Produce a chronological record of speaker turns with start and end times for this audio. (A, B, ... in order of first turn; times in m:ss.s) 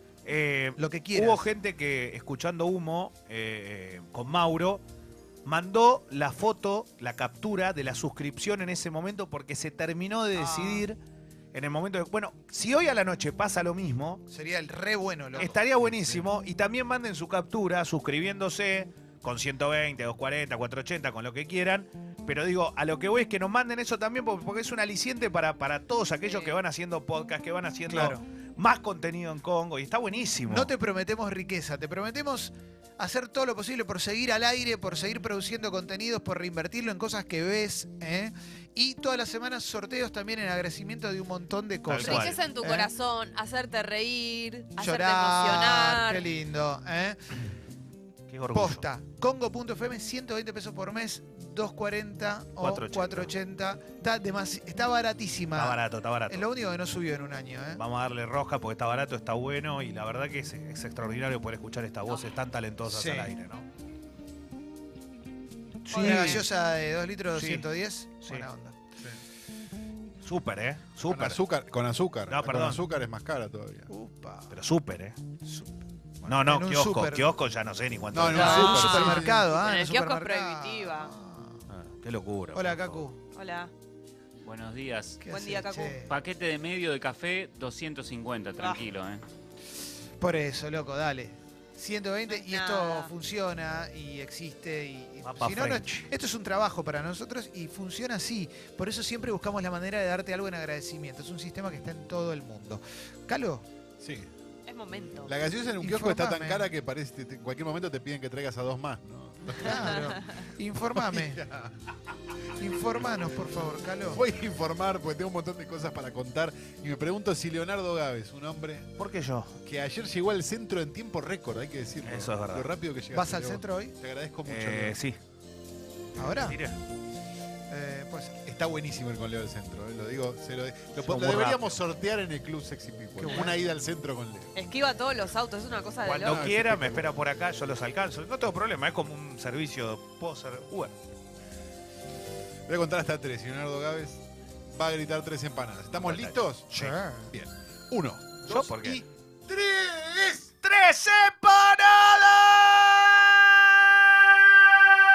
0:00.2-0:04.8 A
0:00.8-0:01.5 B
0:05.4-0:11.0 A
0:10.4-0:10.9 B
0:11.5-0:14.2 A
0:14.3-0:15.6 B
0:15.4-0:30.7 A
0:15.8-0:16.3 C
0:27.9-0:28.2 B
0:30.5-0:42.9 B
0:41.9-0:42.4 A
0:42.0-0:46.2 D
0:44.8-0:47.2 B
0:48.3-0:48.8 A
0:48.5-0:57.8 B
0:52.6-0:53.3 A
0:55.5-0:56.5 A
0:57.8-1:03.7 A
1:02.9-1:03.3 B
1:05.8-1:06.5 A
1:05.9-1:08.8 B
1:05.9-1:06.3 D
1:07.3-1:07.7 A
1:08.2-1:08.5 A
1:10.2-1:11.4 A
1:11.1-1:13.9 C
1:12.3-1:12.8 A
1:13.9-1:14.6 B
1:14.5-1:15.2 A
1:15.4-1:17.3 B
1:16.2-1:18.9 A
1:18.1-1:19.5 C
1:18.3-1:21.6 B
1:18.3-1:21.1 D
1:21.7-1:23.1 A
1:22.5-1:23.2 B
1:23.3-1:23.7 D
1:24.4-1:25.2 E
1:25.2-1:26.1 B
1:25.3-1:26.0 D
1:26.0-1:29.2 E
1:28.5-1:28.9 D
1:30.2-1:43.6 B
1:32.3-1:33.1 D
1:35.2-1:36.0 A
1:44.0-1:44.3 C
1:44.7-1:45.3 D
1:45.3-1:50.1 C
1:45.8-1:46.7 B
1:49.5-1:51.4 B
1:49.8-1:50.2 D
1:51.0-1:51.8 C
1:52.6-1:54.2 B
1:54.1-1:58.9 C
1:59.0-1:59.6 A
1:59.7-2:05.0 C
2:02.0-2:02.7 A
2:03.1-2:03.9 B
2:04.4-2:05.2 A
2:06.2-2:06.6 B
2:06.2-2:06.8 A
2:07.7-2:08.4 B
2:08.5-2:14.5 C
2:10.9-2:11.7 A
2:13.2-2:13.6 B
2:14.6-2:16.4 D
2:16.0-2:21.0 A
2:16.2-2:17.0 C
2:22.7-2:26.7 C
2:25.9-2:27.0 A
2:26.8-2:27.3 B
2:27.2-2:30.5 C
2:28.5-2:29.0 A
2:30.6-2:33.5 A